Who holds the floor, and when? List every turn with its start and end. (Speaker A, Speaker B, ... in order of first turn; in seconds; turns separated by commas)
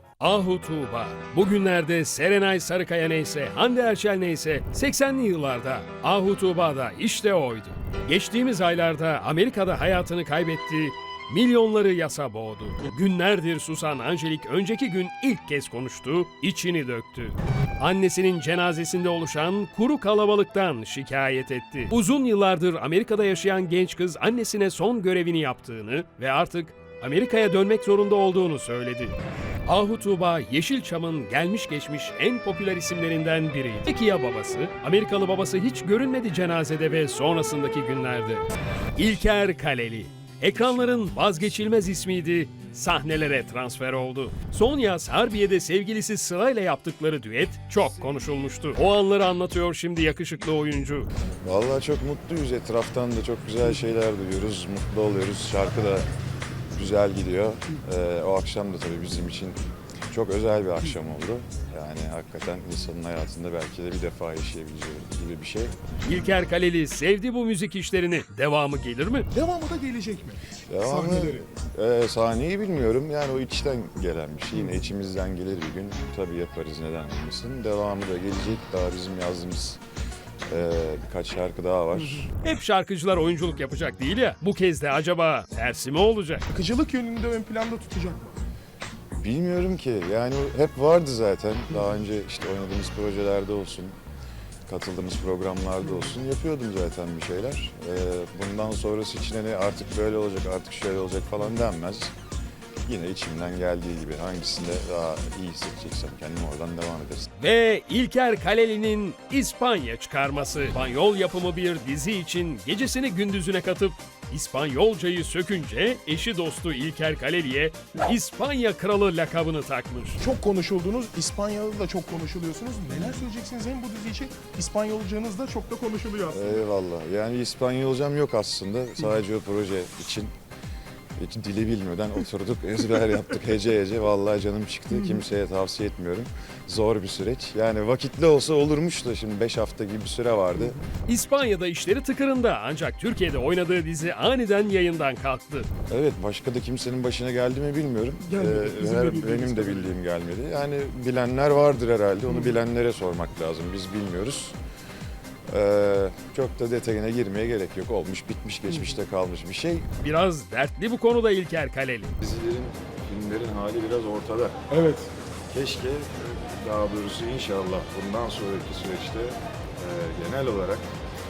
Speaker A: 0.2-38.5, Speaker A: 39.0-51.1, Speaker B: 51.4-56.1, Speaker B: 56.8-65.8, Speaker A: 66.0-69.3, Speaker C: 69.3-71.4, Speaker B: 70.7-79.8, Speaker B: 80.5-82.3, Speaker A: 82.4-86.4, Speaker C: 86.5-88.3, Speaker B: 89.2-94.0, Speaker B: 94.7-102.1, Speaker B: 102.9-107.3, Speaker A: 107.4-120.2, Speaker C: 120.2-126.6, Speaker B: 126.3-130.3, Speaker B: 131.2-140.8, Speaker A: 141.1-145.7, Speaker B: 145.9-154.6, Speaker C: 148.2-149.9, Speaker C: 152.3-152.6, Speaker B: 155.5-159.9, Speaker A: 160.0-162.1, Speaker B: 162.2-164.6, Speaker C: 164.7-165.1, Speaker B: 165.5-170.8